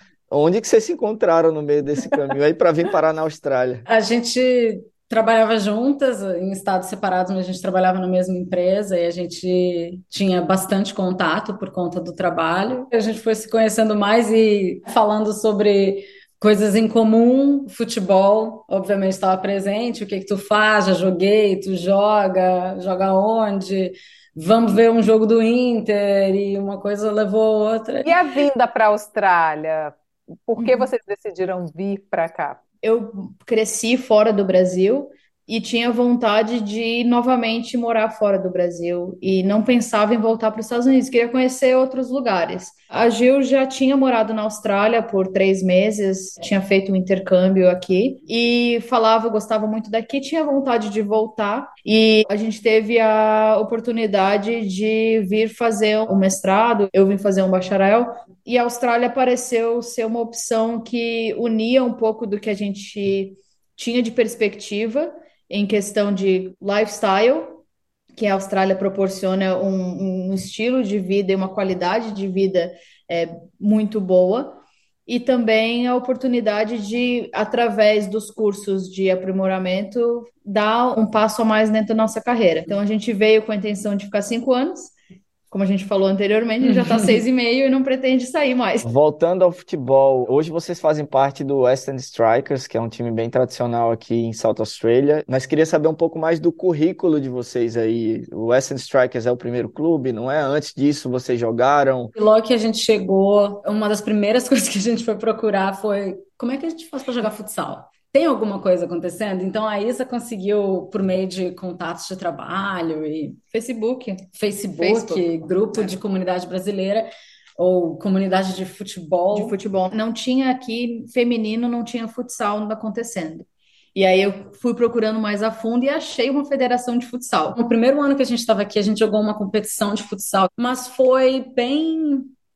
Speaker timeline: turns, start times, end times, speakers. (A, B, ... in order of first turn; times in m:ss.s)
0:00.3-0:03.8 A
0:03.9-0:28.2 B
0:28.0-0:30.0 C
0:30.5-0:32.6 C
0:30.6-0:30.9 D
0:32.8-1:07.6 D
1:08.2-1:24.9 D
1:25.5-1:28.9 D
1:26.6-1:27.2 B
1:28.8-1:42.1 A
1:42.2-1:53.4 B
1:53.5-1:54.2 D
1:54.4-1:59.6 B
1:54.8-1:55.9 D
1:59.3-2:07.5 D
2:07.5-2:12.3 B